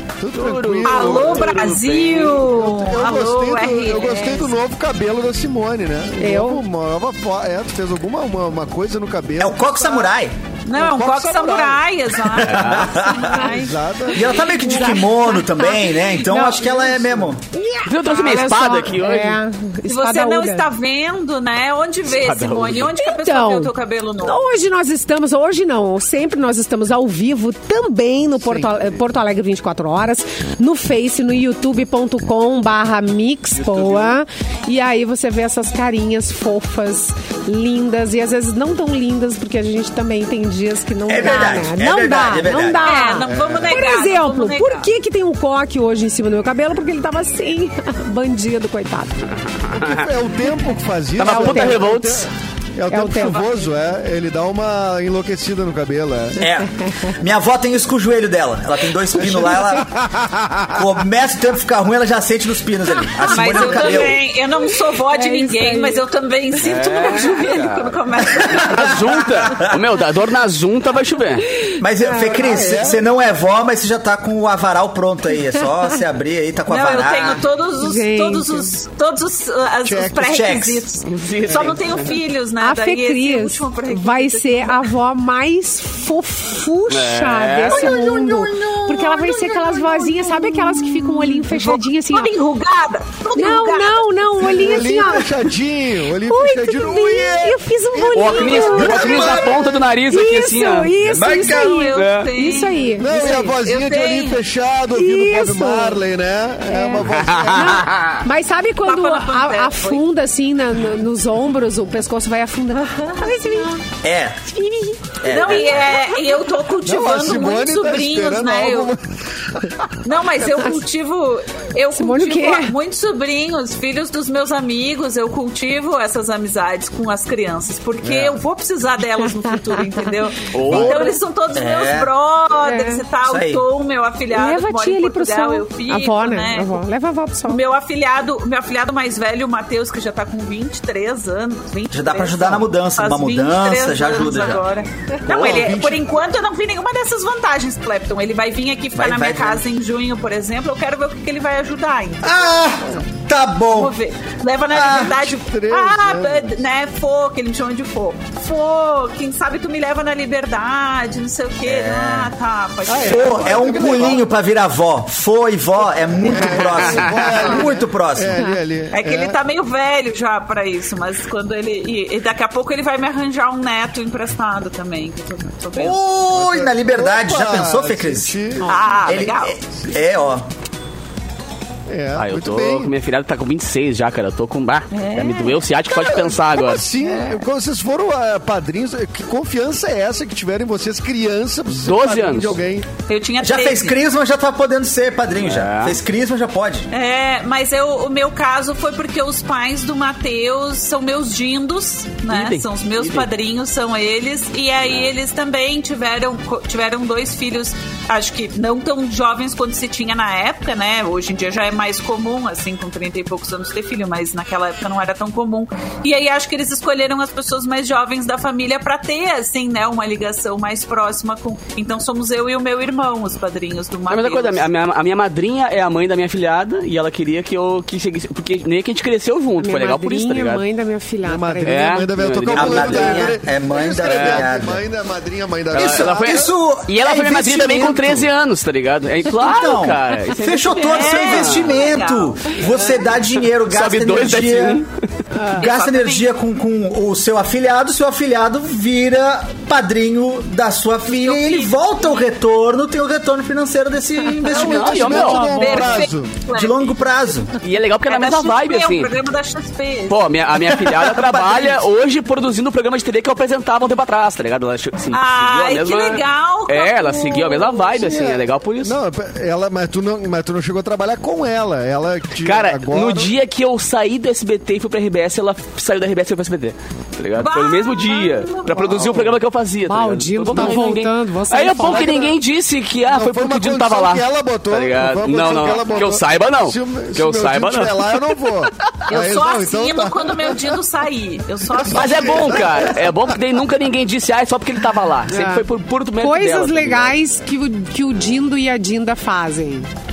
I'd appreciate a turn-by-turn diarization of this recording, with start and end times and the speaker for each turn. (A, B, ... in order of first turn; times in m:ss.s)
0:00.2-0:01.6 A
0:00.4-0:02.5 B
0:00.8-0:04.5 C
0:02.5-0:10.1 A
0:06.2-0:06.6 D
0:09.4-0:10.4 E
0:10.6-0:15.8 C
0:10.8-0:11.9 A
0:12.3-0:13.5 E
0:12.4-0:12.9 B
0:13.4-0:14.3 A
0:14.1-0:17.4 E
0:14.6-0:16.8 D
0:16.8-0:17.3 A
0:17.5-0:20.7 D
0:17.8-0:19.4 B
0:19.9-0:24.5 C
0:22.1-0:23.0 B
0:23.0-0:49.2 D
0:28.4-0:29.0 A
0:33.8-0:34.1 B
0:41.1-0:43.0 E
0:42.8-0:44.9 C
0:43.2-0:43.7 A
0:49.7-0:50.1 B
0:49.7-0:56.4 A
0:51.2-0:52.3 B
0:51.2-0:51.9 D
0:52.9-0:53.6 D
0:56.4-0:59.9 E
0:59.2-1:00.7 A
1:00.7-1:04.2 E
1:03.2-1:09.0 C
1:04.8-1:06.0 D
1:06.6-1:08.0 B
1:08.2-1:09.9 E
1:08.7-1:11.7 B
1:11.8-1:17.4 E
1:12.0-1:12.6 D
1:12.4-1:13.0 A
1:16.7-1:24.9 C
1:17.8-1:18.7 D
1:19.8-1:20.3 A
1:20.2-1:20.9 E
1:21.0-1:22.2 B
1:21.5-1:21.8 E
1:22.6-1:32.3 D
1:26.9-1:28.0 B
1:27.7-1:34.2 C
1:33.4-1:35.4 D
1:34.4-1:39.8 A
1:36.2-1:39.5 D
1:38.1-1:41.1 B
1:38.6-1:39.8 E
1:40.1-1:43.4 D
1:41.1-1:41.8 E
1:41.2-1:44.4 C
1:41.9-1:42.3 B
1:43.0-1:47.9 A
1:44.9-1:46.0 D
1:46.7-1:53.8 D
1:47.1-1:48.2 B
1:48.8-1:50.0 C
1:54.0-1:54.5 E
1:54.5-1:55.2 D
1:55.2-1:56.1 E
1:55.3-1:58.9 C
1:56.8-1:59.9 A
2:00.0-2:16.8 C
2:01.9-2:02.8 D
2:08.0-2:08.4 A
2:10.5-2:11.2 B
2:10.7-2:11.0 A
2:11.6-2:12.1 E
2:12.6-2:13.0 D
2:13.2-2:13.6 E
2:14.3-2:17.6 D
2:17.5-2:32.8 C
2:21.9-2:24.6 E
2:25.3-2:26.1 A
2:29.0-2:29.6 E
2:32.2-2:33.9 E
2:33.7-2:44.0 C
2:34.7-2:35.2 E
2:35.1-2:36.6 A
2:41.6-2:42.3 E
2:42.9-2:44.3 A
2:42.9-2:48.4 E
2:46.2-2:49.4 A
2:48.4-2:48.6 D
2:48.9-2:56.0 C
2:55.8-2:58.3 E
2:56.3-2:58.9 A
2:58.6-2:59.0 D
2:58.7-2:59.6 C
2:59.0-3:00.5 E
3:01.9-3:02.9 A
3:02.2-3:06.9 B
3:04.9-3:05.6 C
3:05.9-3:12.9 A
3:11.8-3:12.6 B
3:13.1-3:14.0 C
3:13.4-3:16.9 E
3:15.4-3:16.0 B
3:16.9-3:44.7 C
3:22.3-3:23.3 B
3:44.1-3:50.6 B
3:49.6-3:52.0 D
3:51.2-3:56.4 A
3:51.6-3:53.3 B
3:52.6-3:54.8 E
3:54.0-3:54.5 B
3:55.7-4:01.7 B
3:55.8-3:58.3 E
3:59.4-4:04.8 E
4:00.7-4:03.0 C
4:03.7-4:04.9 B
4:05.3-4:05.7 D
4:05.6-4:06.4 C
4:05.6-4:15.2 E
4:11.1-4:12.3 C
4:14.5-4:15.8 B
4:14.6-4:16.4 A
4:14.7-4:15.9 D
4:15.4-4:17.1 C
4:16.5-4:17.6 E
4:17.6-4:19.1 B
4:18.1-4:20.3 C
4:20.1-4:28.9 B
4:20.5-4:21.8 E
4:25.1-4:27.7 C
4:27.9-4:33.3 A
4:32.4-4:48.4 B
4:37.4-4:39.2 C
4:39.0-4:39.3 A
4:39.9-4:42.3 D
4:41.8-4:42.3 A
4:43.1-4:50.8 A
4:49.1-4:52.8 C
4:51.8-4:53.3 A
4:51.9-4:57.2 B
4:55.3-4:55.7 D
4:56.2-4:59.9 D